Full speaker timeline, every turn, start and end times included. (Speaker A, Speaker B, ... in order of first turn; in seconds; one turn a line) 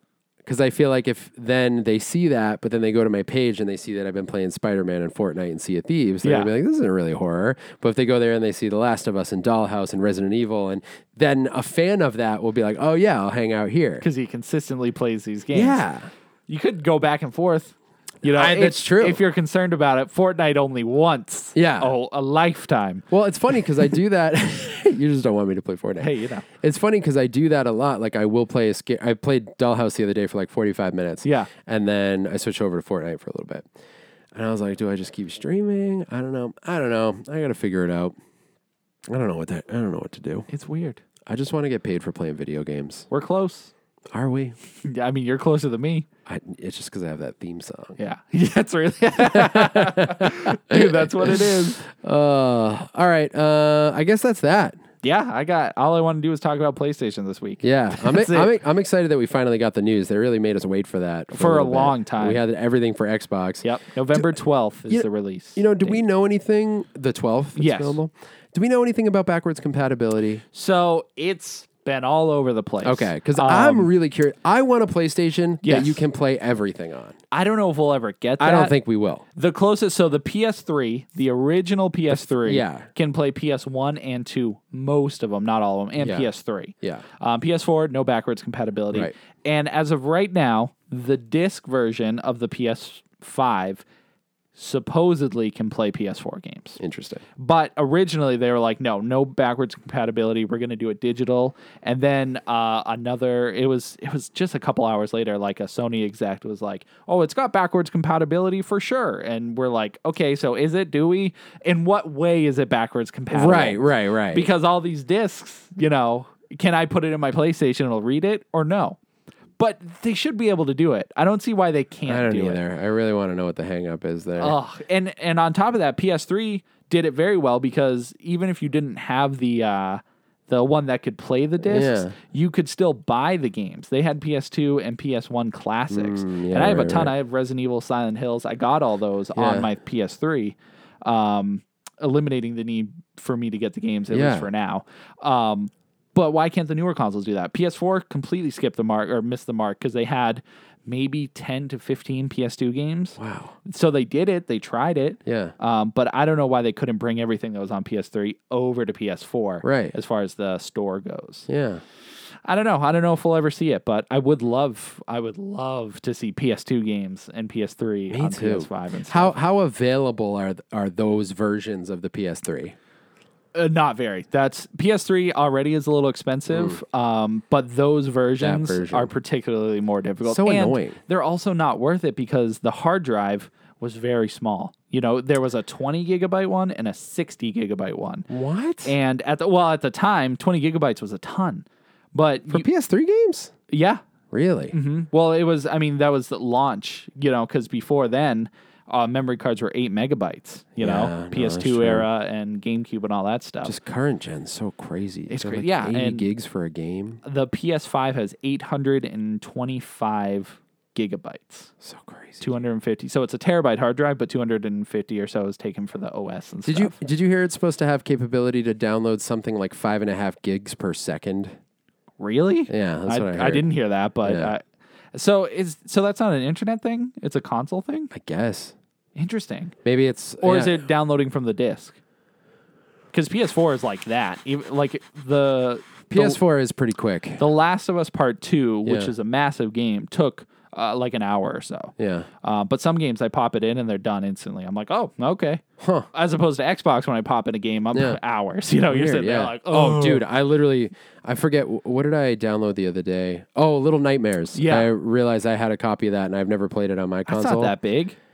Speaker A: 0.5-14.1
Speaker B: 6.2-6.5
Speaker B: 14.0-15.8
Speaker A: 15.5-16.1
Speaker B: 16.5-23.1
Speaker A: 18.2-19.2
Speaker A: 21.5-21.9
Speaker A: 23.1-33.7
Speaker B: 26.0-26.4
Speaker B: 31.2-31.5
Speaker A: 34.3-38.1
Speaker A: 39.1-40.5
Speaker B: 40.5-41.0
Speaker A: 41.3-43.1
Speaker B: 43.1-43.7
Speaker A: 44.1-44.6
Speaker B: 44.8-46.1
Speaker A: 46.3-48.0
Speaker B: 48.0-51.8
Speaker A: 49.2-54.8
Speaker B: 55.0-58.5
Speaker A: 57.6-64.4
Speaker B: 61.3-62.4
Speaker B: 63.6-66.0
Speaker A: 64.9-70.4
Speaker B: 67.6-68.0
Speaker B: 70.5-73.9
Speaker A: 72.8-77.2
Speaker B: 75.6-76.0
Speaker B: 77.3-78.8
Speaker A: 78.4-79.2
Speaker B: 79.3-93.8
Speaker A: 82.1-82.9
Speaker A: 86.0-86.3
Speaker B: 94.6-96.8
Speaker A: 96.8-97.2
Speaker B: 97.4-119.0
Speaker A: 113.3-114.5
Speaker B: 119.6-122.6
Speaker A: 122.1-124.6
Speaker B: 124.4-161.5
Speaker A: 131.6-132.2
Speaker A: 135.9-137.1
Speaker A: 139.3-139.7
Speaker A: 144.1-144.5
Speaker A: 153.2-153.6
Speaker A: 155.2-155.5
Speaker A: 159.6-159.9
Speaker A: 161.5-161.8
Speaker B: 162.4-169.4
Speaker A: 168.1-172.8
Speaker B: 173.5-188.3
Speaker A: 176.5-176.8
Speaker A: 178.4-179.1
Speaker A: 180.2-181.0
Speaker A: 188.3-189.0
Speaker B: 188.8-192.7
Speaker A: 192.5-193.6
Speaker B: 193.7-194.0
Speaker A: 194.3-194.8
Speaker B: 194.7-203.8
Speaker A: 200.8-202.1
Speaker A: 203.6-207.2
Speaker B: 205.3-206.3
Speaker B: 207.2-211.7
Speaker A: 211.8-212.5
Speaker B: 212.4-217.0
Speaker A: 216.7-221.6
Speaker B: 222.2-228.1
Speaker A: 222.7-223.7
Speaker A: 224.2-224.5
Speaker A: 228.1-228.8
Speaker B: 229.2-229.8
Speaker A: 229.8-230.9
Speaker B: 230.4-232.0
Speaker B: 233.1-236.4
Speaker A: 236.1-237.4
Speaker B: 237.4-250.2
Speaker A: 238.8-239.1
Speaker A: 242.0-242.3
Speaker A: 245.8-246.1
Speaker A: 247.9-248.2
Speaker A: 248.9-257.8
Speaker B: 254.5-254.9
Speaker B: 257.3-258.2